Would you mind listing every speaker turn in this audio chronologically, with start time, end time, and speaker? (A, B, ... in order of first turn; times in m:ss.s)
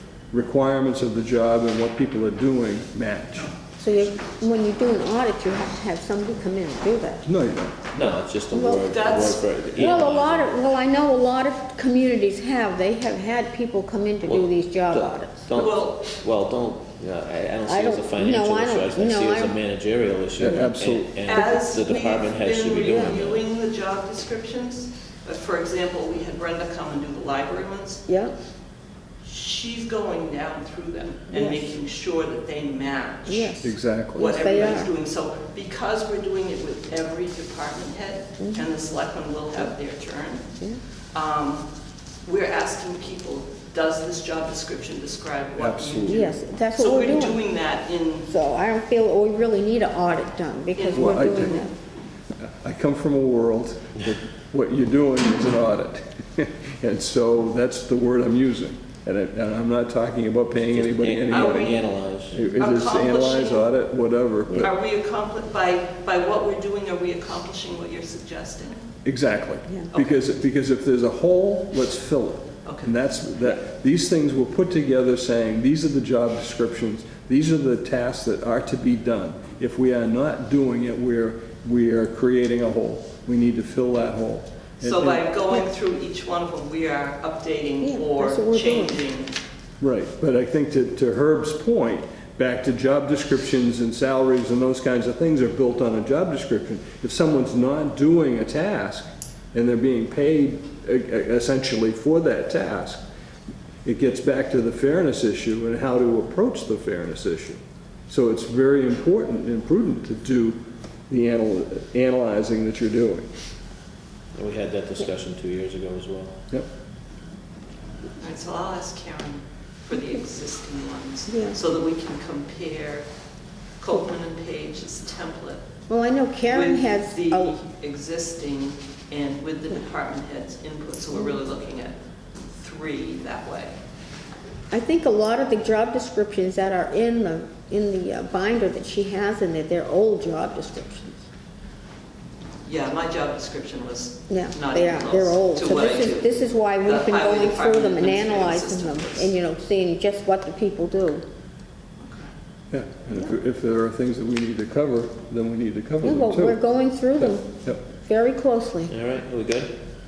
0:00.3-0:03.5 A
0:03.8-0:07.2 B
0:07.2-0:07.9 A
0:07.9-0:10.5 C
0:08.5-0:08.8 B
0:08.8-0:09.4 D
0:09.8-0:15.5 B
0:14.2-0:23.4 C
0:15.6-0:16.0 D
0:17.6-0:19.6 B
0:20.4-0:21.1 A
0:21.2-0:28.0 D
0:22.9-0:23.2 B
0:28.1-0:28.4 B
0:29.2-0:33.6 D
0:31.3-0:31.7 B
0:33.3-0:34.9 B
0:33.6-0:34.4 A
0:34.2-0:40.4 D
0:38.4-0:38.7 B
0:41.1-0:41.7 D
0:42.2-0:48.3 D
0:45.6-0:46.3 A
0:46.0-0:47.4 B
0:48.3-0:51.7 B
0:50.8-0:51.7 D
0:50.9-0:51.6 A
0:52.4-1:01.8 A
1:00.7-1:02.6 C
1:01.3-1:01.8 D
1:02.3-1:04.7 A
1:02.6-1:03.7 D
1:04.6-1:08.9 D
1:09.0-1:25.2 A
1:09.9-1:10.2 D
1:12.6-1:12.9 D
1:24.8-1:29.3 D
1:27.8-1:29.0 B
1:29.8-1:43.0 A
1:43.8-1:53.3 A
1:54.3-1:56.4 C
1:58.2-2:03.0 D
2:01.3-2:01.6 B
2:03.8-2:05.6 D
2:05.9-2:07.5 B
2:06.5-2:12.0 D
2:12.6-2:13.8 D
2:14.7-2:21.2 B
2:22.6-2:29.3 D
2:24.3-2:31.2 B
2:32.0-2:32.2 D
2:32.7-2:36.6 A
2:36.0-2:38.9 B
2:37.2-2:37.8 A
2:38.9-2:39.7 C